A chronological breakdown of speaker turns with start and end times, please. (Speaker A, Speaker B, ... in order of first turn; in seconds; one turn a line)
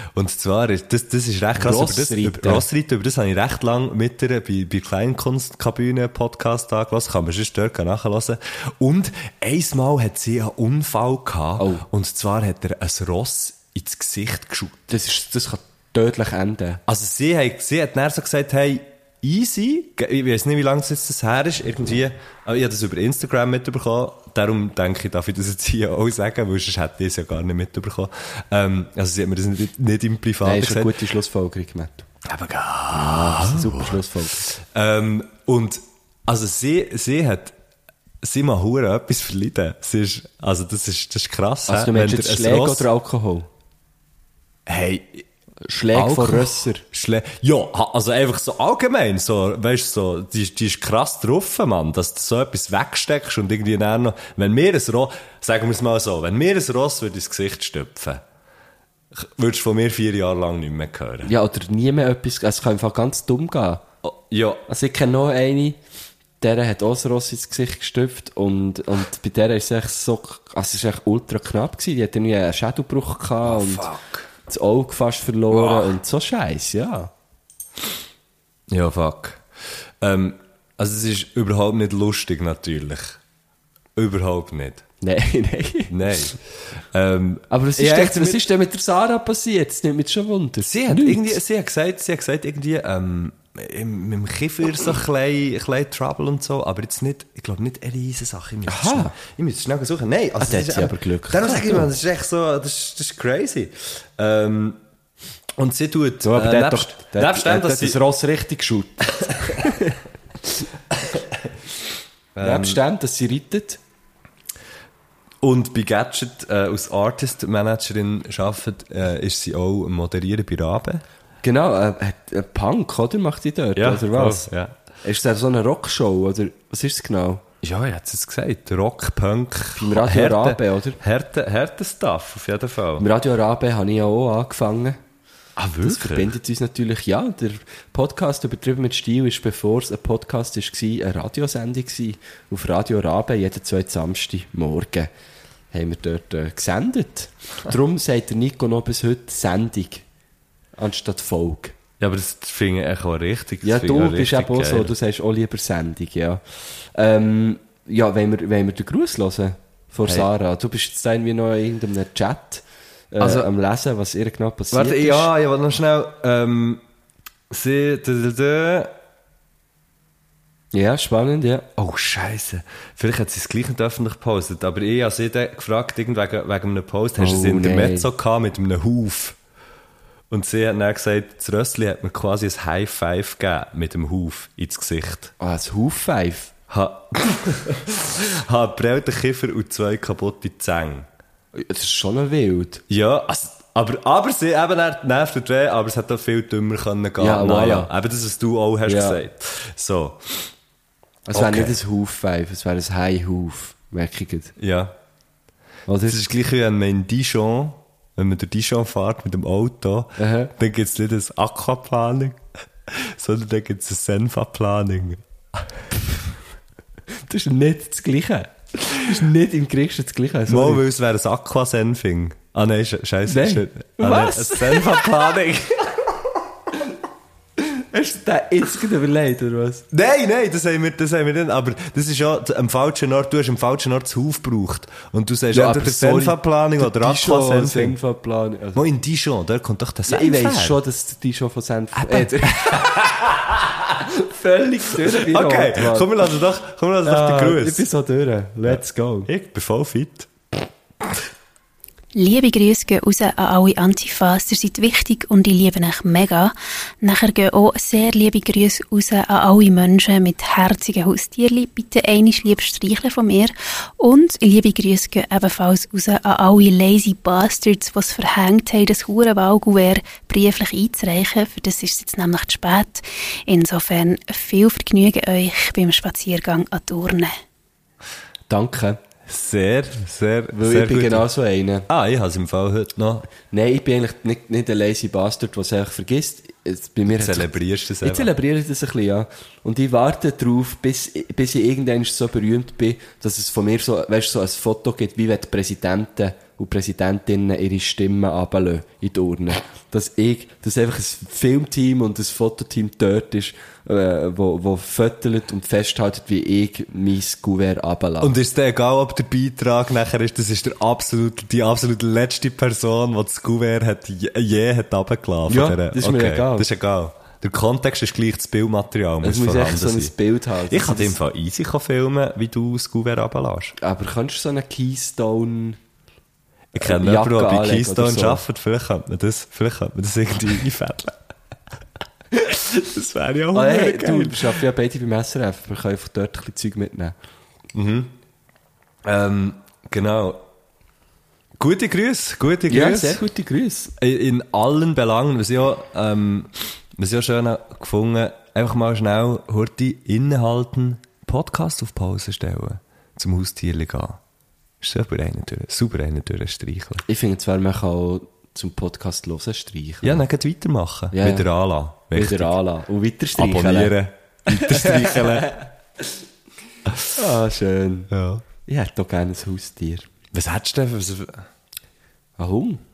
Speaker A: 0.1-14.8
Speaker B: 1.6-2.7
Speaker B: 11.6-11.8
Speaker B: 14.9-16.8
Speaker A: 16.9-30.9
Speaker B: 30.4-32.1
Speaker A: 32.2-37.5
Speaker B: 32.9-34.5
Speaker A: 38.2-42.9
Speaker B: 41.7-43.5
Speaker A: 44.7-45.3
Speaker B: 45.6-46.8
Speaker A: 45.9-58.2
Speaker A: 59.1-61.3
Speaker B: 61.2-63.8
Speaker A: 64.0-64.7
Speaker B: 64.7-65.8
Speaker B: 66.4-73.9
Speaker A: 73.4-74.3
Speaker B: 74.5-77.1
Speaker A: 75.5-75.9
Speaker A: 78.7-83.2
Speaker A: 84.0-84.8
Speaker B: 85.0-86.0
Speaker A: 85.9-88.4
Speaker B: 87.5-91.4
Speaker A: 90.6-104.8
Speaker B: 98.7-99.2
Speaker B: 100.4-101.9
Speaker A: 105.6-108.0
Speaker B: 106.2-110.0
Speaker A: 109.2-109.6
Speaker A: 112.3-112.8
Speaker B: 112.4-113.8
Speaker A: 115.4-121.0
Speaker B: 121.4-124.5
Speaker A: 123.8-124.8
Speaker B: 125.0-127.4
Speaker A: 127.6-133.1
Speaker B: 129.7-131.0
Speaker B: 133.0-135.0
Speaker A: 135.6-136.3
Speaker B: 135.8-145.1
Speaker B: 145.7-150.1
Speaker B: 150.8-151.8
Speaker A: 152.0-154.9
Speaker B: 153.6-165.3
Speaker A: 163.2-163.5
Speaker A: 164.7-166.8
Speaker A: 167.5-168.9
Speaker B: 170.7-171.7
Speaker A: 171.8-179.4
Speaker B: 177.2-178.1
Speaker A: 180.3-185.3
Speaker B: 185.4-186.5
Speaker A: 186.7-191.1
Speaker B: 191.5-192.8
Speaker A: 192.9-200.5
Speaker B: 197.2-197.9
Speaker B: 198.9-199.2
Speaker B: 201.3-204.5
Speaker A: 201.3-201.8
Speaker A: 204.6-204.9
Speaker B: 205.9-206.2
Speaker A: 206.1-215.2
Speaker B: 210.2-210.5
Speaker B: 217.3-220.8
Speaker A: 220.5-226.0
Speaker B: 223.3-225.1
Speaker B: 227.6-229.9
Speaker A: 229.9-238.0
Speaker B: 235.5-238.8
Speaker A: 238.8-240.8
Speaker B: 240.1-243.1
Speaker A: 241.9-244.0
Speaker B: 244.0-246.3
Speaker A: 245.1-247.9
Speaker B: 247.0-249.3
Speaker A: 248.7-250.3
Speaker C: 252.2-277.3
Speaker B: 278.5-279.0
Speaker A: 279.3-281.3
Speaker B: 280.5-281.9
Speaker A: 281.9-283.3
Speaker B: 283.5-308.3
Speaker A: 287.1-288.3
Speaker A: 308.2-320.1
Speaker B: 315.5-316.7
Speaker B: 319.2-321.2
Speaker A: 320.7-323.8
Speaker B: 323.8-325.8
Speaker A: 326.7-331.2
Speaker B: 326.8-328.4
Speaker A: 332.3-334.6
Speaker B: 333.5-337.1
Speaker A: 337.7-338.1
Speaker A: 339.0-340.4
Speaker A: 341.6-343.2
Speaker B: 342.7-343.9
Speaker A: 344.0-354.2
Speaker A: 354.8-357.0
Speaker B: 357.1-360.2
Speaker A: 360.0-362.6
Speaker B: 361.1-361.5
Speaker B: 362.1-364.0
Speaker A: 363.4-365.6
Speaker B: 364.5-365.6
Speaker A: 366.9-367.1
Speaker B: 367.1-368.1
Speaker A: 368.1-368.4
Speaker B: 368.6-370.1
Speaker A: 370.3-371.4
Speaker B: 372.4-372.8